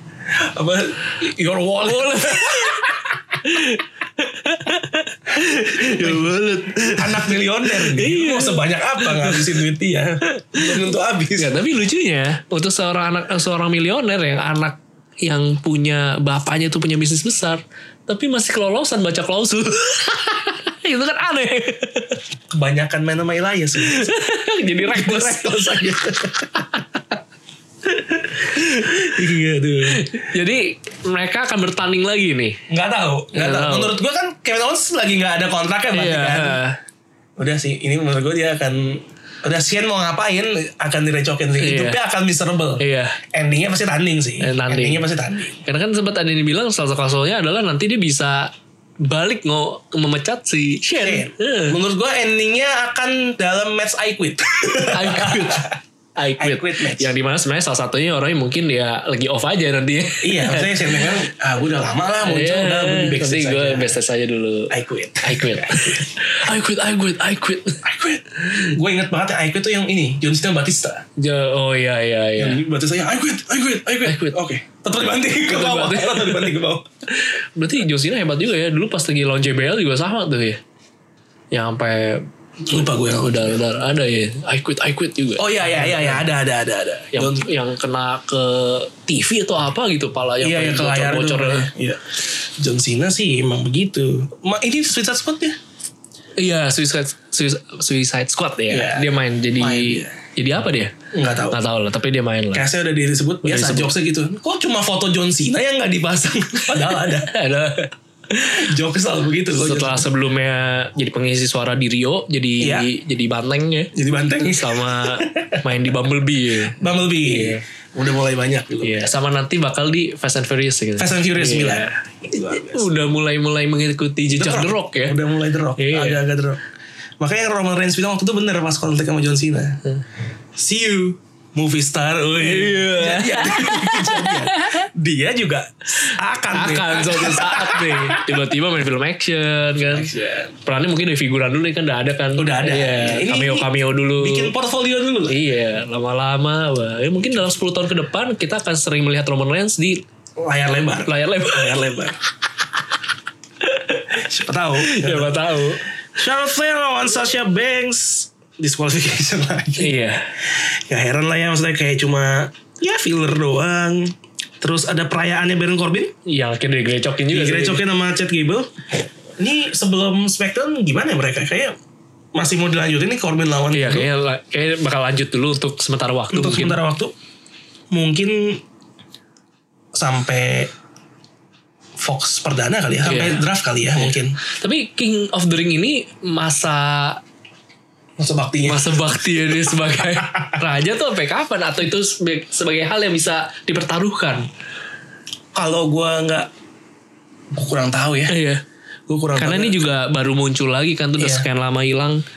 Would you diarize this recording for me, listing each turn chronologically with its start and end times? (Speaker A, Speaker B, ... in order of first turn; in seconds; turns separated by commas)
Speaker A: 0.3-3.0, Speaker B: 1.8-9.5, Speaker A: 5.7-6.3, Speaker A: 6.9-11.6, Speaker B: 10.2-10.8, Speaker B: 11.4-22.2, Speaker A: 22.5-24.1, Speaker B: 23.8-27.0, Speaker A: 24.8-26.6, Speaker B: 28.0-29.3, Speaker A: 28.2-30.1, Speaker B: 29.8-32.6, Speaker A: 32.7-36.6, Speaker B: 33.3-34.0, Speaker B: 35.9-36.8, Speaker A: 37.4-45.6, Speaker B: 41.6-42.0, Speaker B: 42.8-43.2, Speaker B: 44.4-45.0, Speaker B: 45.6-51.8, Speaker A: 51.0-55.8, Speaker B: 54.9-61.2, Speaker A: 56.4-57.1, Speaker A: 60.2-64.0, Speaker B: 62.2-68.7, Speaker A: 64.7-66.1, Speaker A: 67.8-71.0, Speaker B: 71.2-72.6, Speaker A: 72.4-76.9, Speaker B: 74.0-74.4, Speaker B: 75.5-76.5, Speaker B: 77.1-80.6, Speaker B: 81.5-86.2, Speaker A: 82.7-83.6, Speaker A: 85.4-87.5, Speaker B: 87.1-91.7, Speaker A: 90.4-95.6, Speaker B: 96.4-100.9, Speaker A: 98.7-100.2, Speaker A: 101.1-101.6, Speaker B: 101.5-102.7, Speaker A: 102.5-107.4, Speaker B: 103.4-103.9, Speaker B: 106.8-108.6, Speaker A: 108.4-110.1, Speaker B: 109.5-117.6, Speaker A: 112.6-112.9, Speaker A: 113.9-115.6, Speaker A: 116.7-119.1, Speaker B: 118.8-125.2, Speaker A: 121.0-122.9, Speaker A: 124.3-126.6, Speaker B: 125.8-126.2, Speaker A: 127.2-129.8, Speaker A: 130.6-138.5, Speaker B: 132.4-134.8, Speaker B: 136.1-144.5, Speaker A: 139.9-140.5, Speaker A: 142.3-145.4, Speaker B: 145.3-150.0, Speaker A: 150.4-152.2, Speaker B: 151.1-152.1, Speaker B: 153.6-155.9, Speaker A: 154.1-155.4, Speaker A: 156.1-166.1, Speaker B: 159.8-160.3, Speaker B: 166.2-167.8, Speaker A: 167.3-168.7, Speaker A: 169.4-171.8, Speaker A: 172.3-174.1, Speaker B: 173.7-176.8, Speaker A: 176.3-177.1, Speaker A: 177.9-178.6, Speaker A: 179.9-180.7, Speaker A: 182.0-184.4, Speaker B: 183.0-183.4, Speaker B: 183.9-187.2, Speaker A: 188.2-189.8, Speaker B: 188.6-194.5, Speaker A: 195.5-196.5, Speaker A: 197.5-198.3, Speaker B: 198.3-198.6, Speaker A: 199.1-199.9, Speaker B: 199.4-202.2, Speaker A: 201.2-201.4